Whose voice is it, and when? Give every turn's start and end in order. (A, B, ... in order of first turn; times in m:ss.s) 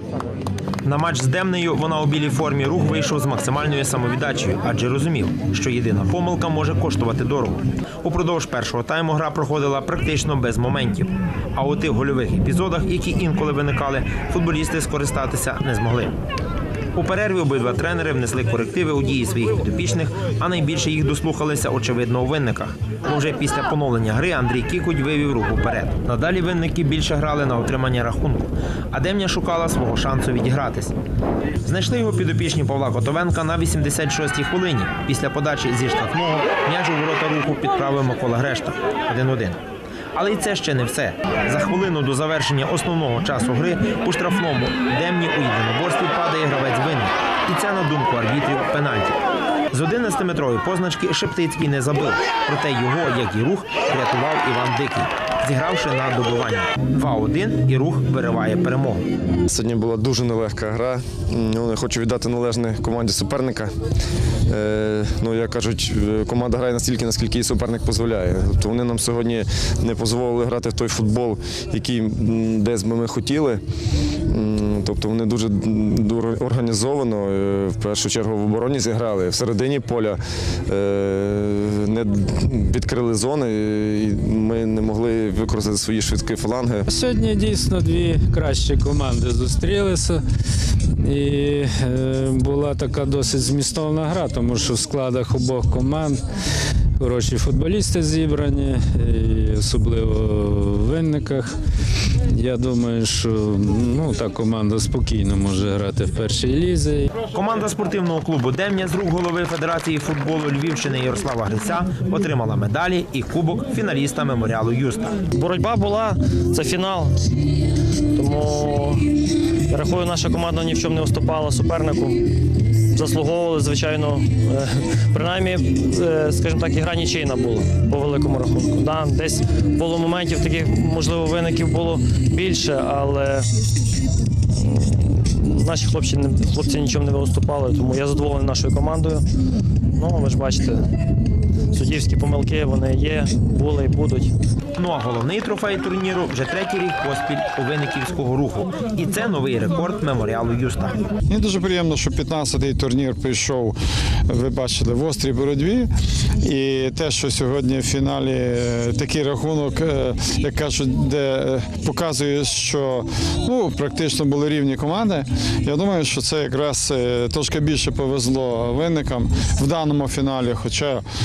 0:00.8-0:16.1 A
0:16.9-0:30.9 A
0:31.6-0:39.6 A
0:40.1-0:49.2 A
0:49.7-0:59.0 A
0:59.5-1:03.8 B
1:04.5-1:13.6 B
1:14.2-1:26.8 B
1:26.9-1:30.2 C
1:30.9-1:36.2 C
1:37.0-1:41.5 C
1:42.3-1:47.1 C
1:47.3-1:55.2 A
1:55.4-1:57.1 D
1:58.2-1:59.0 D
1:59.7-2:02.1 D
2:02.9-2:13.4 D
2:15.2-2:19.2 D
2:20.0-2:20.7 D
2:21.8-2:24.1 D
2:24.8-2:31.0 A
2:31.3-2:35.9 E
2:36.4-2:51.0 E